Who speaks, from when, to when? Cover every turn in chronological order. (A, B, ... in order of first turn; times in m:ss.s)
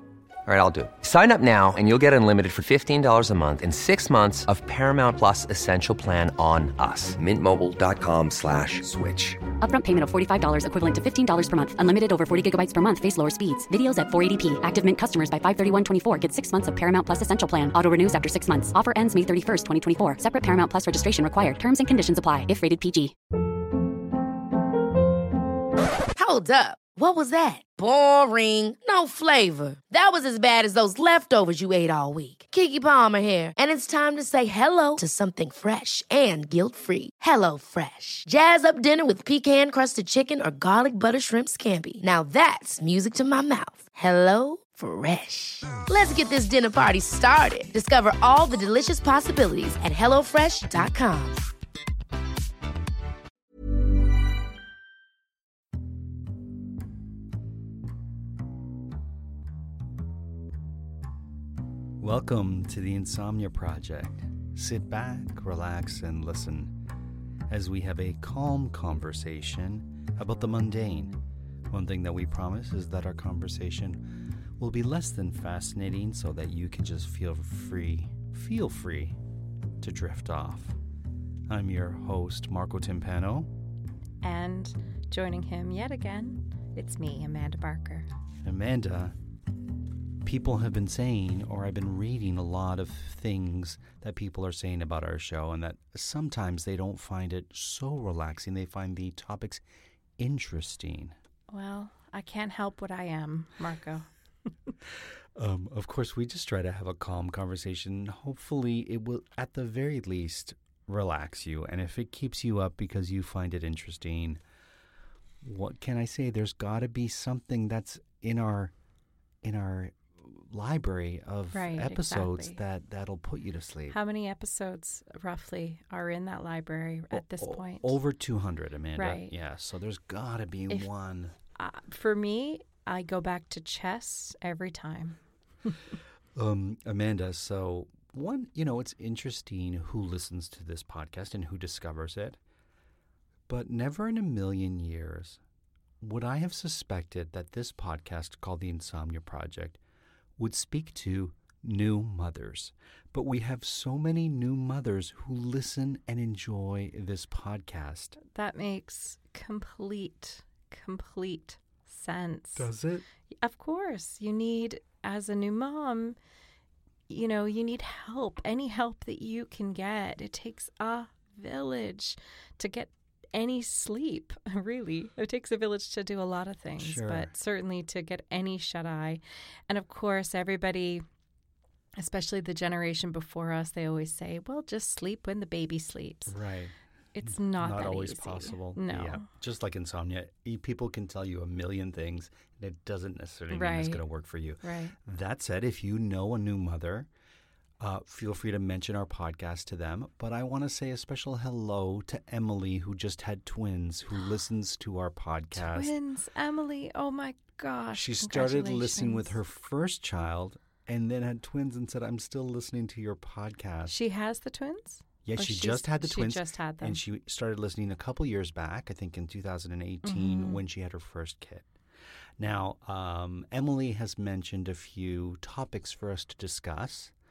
0:00.4-0:09.4 A
0:09.6-0:23.1 B
0:26.2-0:51.4 C
1:02.0-1:06.8 D
1:07.5-1:19.2 D
1:19.8-1:20.8 D
1:21.5-1:23.5 D
1:24.2-1:28.1 E
1:28.4-1:29.1 D
1:30.2-1:39.6 D
1:40.2-1:41.2 D
1:41.5-1:44.1 E
1:45.4-1:54.4 D
1:55.4-1:58.7 D
1:59.4-2:04.0 D
2:01.5-2:02.6 E
2:03.9-2:08.0 E
2:07.1-2:11.3 D
2:09.0-2:09.3 E
2:11.5-2:15.2 E
2:16.3-2:22.4 D
2:23.5-2:25.4 D
2:26.0-2:29.8 D
2:30.4-2:38.2 D
2:38.2-2:42.7 E
2:42.6-2:43.0 D
2:43.3-2:46.2 E
2:47.1-3:01.0 E
2:56.8-2:57.3 D
3:02.0-3:06.3 E
3:06.3-3:06.7 D
3:07.1-3:09.3 E
3:07.2-3:17.1 D
3:13.5-3:14.0 E
3:14.6-3:15.0 E
3:17.8-3:25.9 D
3:25.5-3:29.4 E
3:27.9-3:34.0 D
3:33.9-3:37.0 E
3:35.2-3:41.7 D
3:40.0-3:40.6 E
3:42.4-3:47.1 D